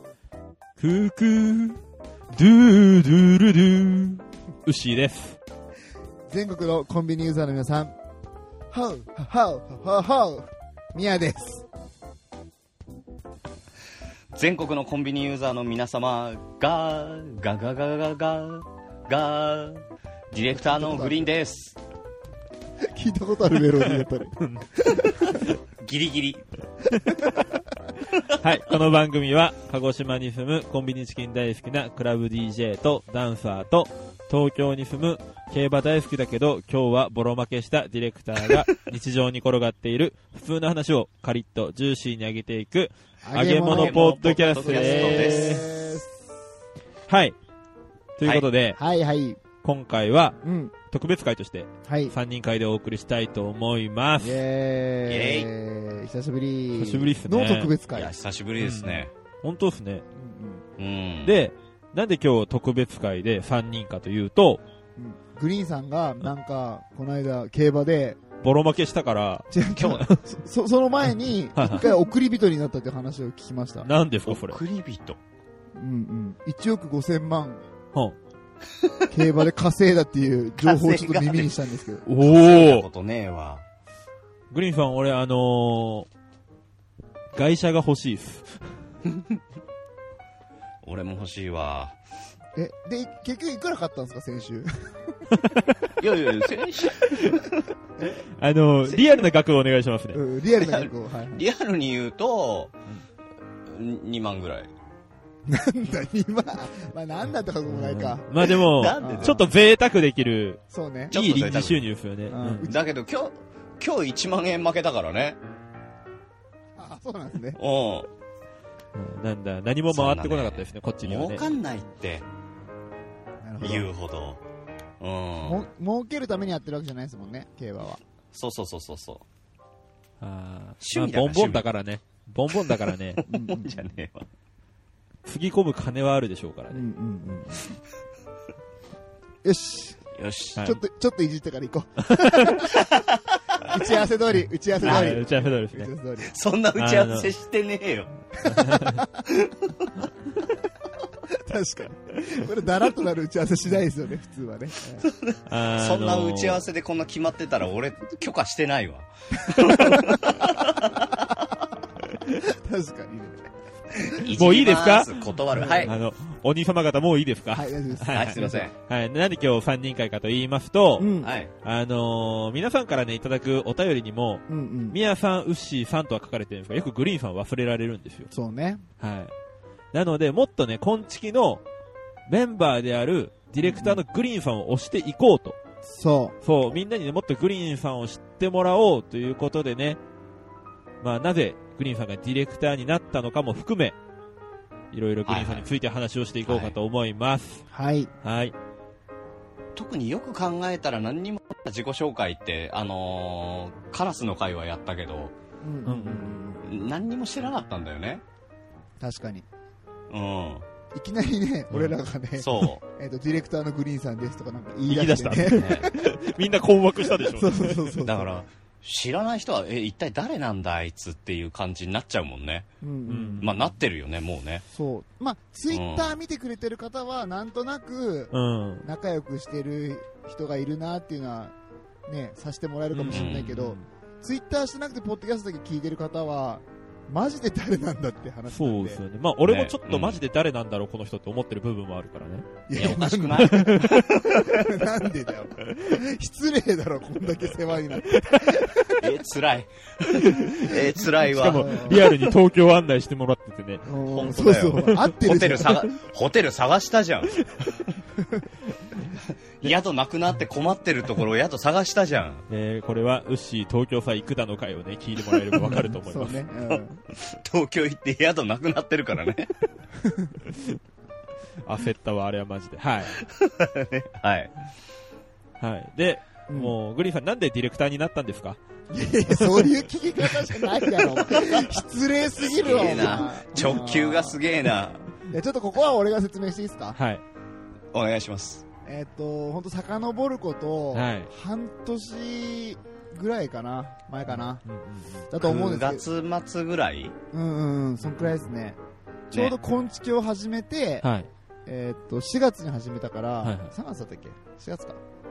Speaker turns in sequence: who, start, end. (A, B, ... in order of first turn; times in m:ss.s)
0:00.8-0:01.8 A
0:02.4-0:05.4 A
0:06.3-0:08.0 B
0:08.7-0:11.7 B
0:14.3-0:21.8 C
0:20.6-0:21.2 B
0:22.8-0:25.4 B
0:24.4-0:25.4 A
0:25.8-0:26.5 C
0:27.1-0:27.5 B
0:28.3-0:45.6 A
0:43.2-0:46.2 B
0:43.7-0:45.6 C
0:47.1-0:47.4 A
0:48.2-0:48.8 A
0:48.8-0:49.4 B
0:49.6-0:50.4 A
0:50.4-0:50.7 B
0:50.9-0:54.4 A
0:51.8-0:52.1 B
0:54.2-0:58.1 B
0:55.1-0:55.5 C
0:56.8-0:57.7 A
0:57.9-0:59.1 C
0:58.6-1:00.0 A
1:00.1-1:00.6 B
1:00.8-1:01.4 C
1:01.2-1:04.6 A
1:05.0-1:08.2 B
1:08.4-1:10.2 A
1:09.5-1:13.9 B
1:11.6-1:11.9 A
1:13.8-1:14.6 A
1:14.2-1:15.2 C
1:15.8-1:17.6 B
1:18.7-1:19.0 C
1:19.1-1:22.1 B
1:20.6-1:21.5 C
1:22.1-1:22.8 A
1:22.1-1:23.6 C
1:24.5-1:26.1 A
1:27.4-1:28.8 A
1:30.8-1:32.0 C
1:32.6-1:35.3 B
1:36.0-1:37.6 C
1:37.1-1:37.4 A
1:38.2-1:40.2 A
1:38.8-1:39.2 C
1:40.1-1:41.4 B
1:40.6-1:42.7 C
1:43.7-1:44.7 C
1:45.5-1:49.4 B
1:47.7-1:52.7 A
1:48.4-1:49.4 C
1:50.7-1:51.2 B
1:51.1-1:51.9 C
1:52.3-1:52.9 B
1:52.6-1:55.4 C
1:56.8-1:57.6 B
1:57.6-1:58.1 C
1:59.0-2:01.5 A
1:59.9-2:02.3 C
2:03.4-2:03.9 B
2:03.6-2:04.4 C
2:05.0-2:05.6 C
2:05.4-2:08.0 B
2:08.3-2:09.2 C
2:10.2-2:13.2 A
2:10.8-2:11.7 C
2:12.5-2:14.3 C
2:13.3-2:13.9 B
2:15.3-2:16.8 A
2:16.7-2:17.8 B
2:19.4-2:20.0 B
2:20.2-2:20.6 C
2:20.6-2:22.8 B
2:22.0-2:22.7 A
2:22.7-2:23.6 C
2:23.6-2:26.3 B
2:24.8-2:25.9 A
2:24.8-2:25.2 C
2:26.2-2:28.1 C
2:26.8-2:27.3 A
2:28.4-2:29.2 B
2:28.5-2:29.0 A
2:29.3-2:29.9 C
2:31.3-2:35.1 B
2:35.0-2:41.1 C
2:35.5-2:36.6 A
2:39.4-2:41.5 B
2:42.2-2:43.4 B
2:44.1-2:46.0 C
2:44.3-2:45.2 A
2:45.5-2:45.9 B
2:45.8-2:51.1 A
2:47.5-2:48.7 B
2:48.1-2:48.7 C
2:51.0-2:51.3 B
2:51.2-2:51.5 C
2:51.6-2:58.3 A
2:54.5-2:55.0 B
2:58.3-2:58.8 B
2:59.0-2:59.3 A
2:59.9-3:01.6 A
3:02.3-3:05.6 A
3:03.6-3:04.0 B
3:05.8-3:06.4 B
3:06.4-3:10.0 A
3:11.0-3:14.0 A
3:14.9-3:17.7 A
3:15.2-3:15.7 C
3:16.4-3:16.8 C
3:17.7-3:18.1 B
3:18.2-3:18.6 A
3:19.8-3:25.3 C
3:25.6-3:26.8 B
3:25.9-3:26.4 A
3:26.6-3:28.2 C
3:29.0-3:29.5 B
3:30.1-3:30.6 C
3:30.9-3:36.3 B
3:32.4-3:32.8 C
3:34.9-3:37.9 A
3:35.4-3:36.0 C
3:37.1-3:38.4 B
3:38.0-3:42.7 C
3:42.8-3:43.6 B
3:43.1-3:43.6 A
3:43.4-3:44.6 C
3:44.7-3:48.3 B
3:45.7-3:46.2 C
3:48.3-3:48.9 A
3:48.8-3:51.5 B
3:52.1-3:59.0 B
3:52.9-3:53.8 A
3:53.1-3:53.5 C
3:58.5-4:02.5 A
3:59.4-4:00.2 C
4:02.7-4:09.1 B
4:02.8-4:04.8 C
4:03.4-4:04.1 A
4:08.1-4:08.5 A
4:08.9-4:12.3 C
4:10.1-4:13.8 A
4:11.4-4:12.1 B
4:13.8-4:15.9 B
4:14.0-4:17.4 C
4:17.4-4:17.7 A
4:18.2-4:18.5 B
4:19.6-4:22.4 C
4:22.5-4:26.4 A
4:25.6-4:27.0 B
4:27.1-4:29.5 C
4:30.0-4:30.4 B
4:31.6-4:33.2 A
4:33.2-4:34.5 C
4:35.6-4:38.6 A
4:36.5-4:36.8 B
4:38.9-4:44.4 B
4:39.4-4:39.7 A
4:41.3-4:41.8 C
4:42.3-4:45.1 C
4:45.2-4:47.0 B
4:47.0-4:47.2 A
4:47.9-4:48.6 C
4:48.8-4:54.6 B
4:50.9-4:51.3 A
4:54.6-4:55.2 A
4:55.3-4:56.0 B
4:55.4-4:57.2 C
4:57.3-4:58.8 B
4:59.3-5:01.1 B
5:01.0-5:01.3 A
5:01.7-5:05.0 B
5:03.4-5:03.7 A